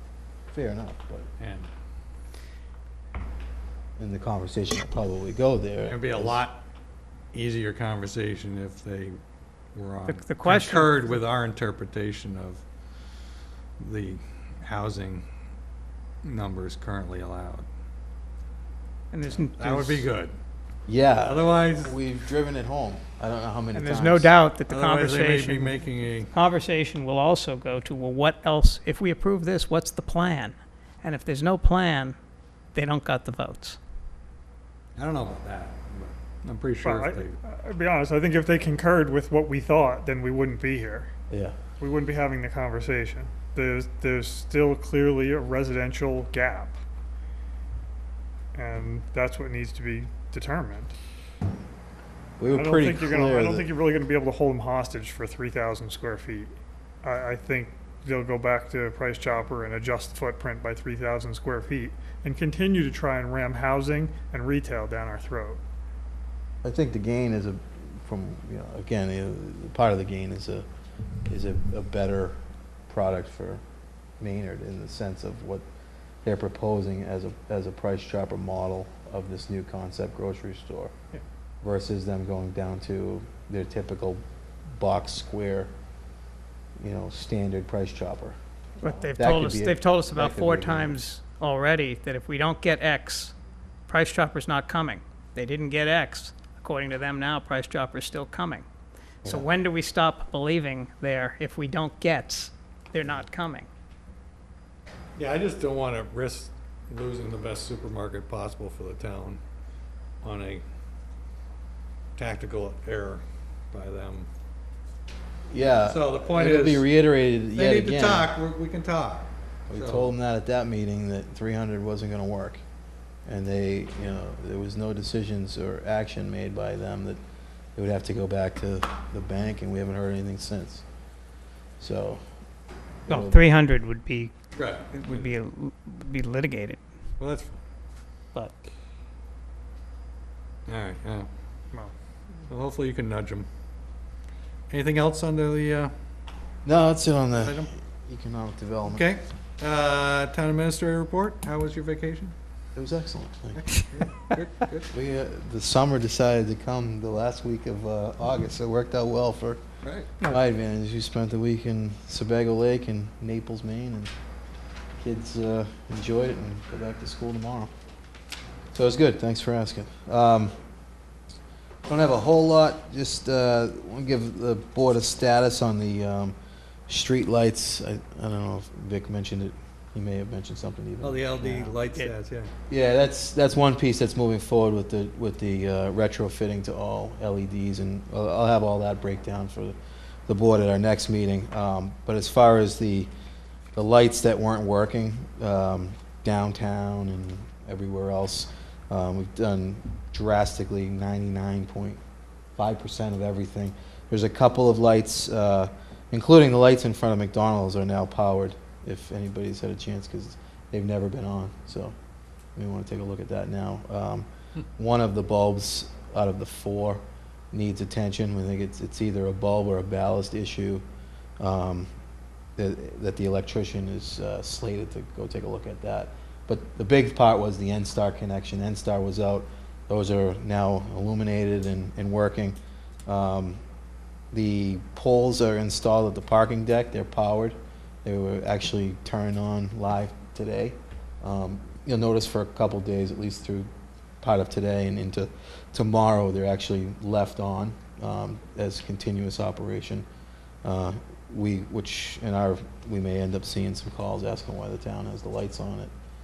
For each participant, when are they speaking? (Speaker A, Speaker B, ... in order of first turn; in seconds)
Speaker A: 0.5-1.3, 4.0-6.4, 20.9-24.3, 41.3-41.5, 52.4-53.7, 66.6-70.7, 71.3-73.6, 74.2-75.6, 76.2-80.9, 81.6-84.2, 84.7-85.7, 86.8-91.0, 115.5-118.3, 119.7-122.6, 123.2-127.2, 127.8-130.8, 131.8-132.2, 133.1-133.4, 146.6-149.1, 152.8-153.6, 154.9-159.6, 160.2-164.1, 165.0-167.7, 168.7-170.5, 171.9-176.3, 176.9-181.8, 182.7-189.8, 190.3-193.1, 193.7-202.0, 202.6-211.9, 212.5-214.2, 214.8-220.8, 221.4-221.9, 222.6-233.6, 234.3-243.7, 244.2-250.0, 250.6-255.9
Speaker B: 1.4-1.7, 5.9-6.6, 7.3-9.2, 9.7-12.6, 13.8-15.2, 16.2-17.7, 19.5-20.3, 21.2-22.0, 24.7-26.3, 35.0-37.4, 105.2-109.4, 110.2-110.6, 112.2-114.3, 115.8-116.9, 117.5-120.1, 134.5-135.3, 137.2-137.6, 140.7-141.3, 142.5-143.5, 144.7-145.9, 147.3-147.7, 148.8-152.3, 153.6-154.9, 159.8-160.1, 181.0-182.5
Speaker C: 10.1-11.1, 19.1-20.1, 23.7-32.1, 32.7-33.8, 88.8-93.3, 93.9-98.7, 99.2-103.7, 133.1-134.3, 134.9-136.8
Speaker D: 36.8-41.1, 41.8-46.8, 48.5-50.9, 52.5-56.5, 57.0-65.6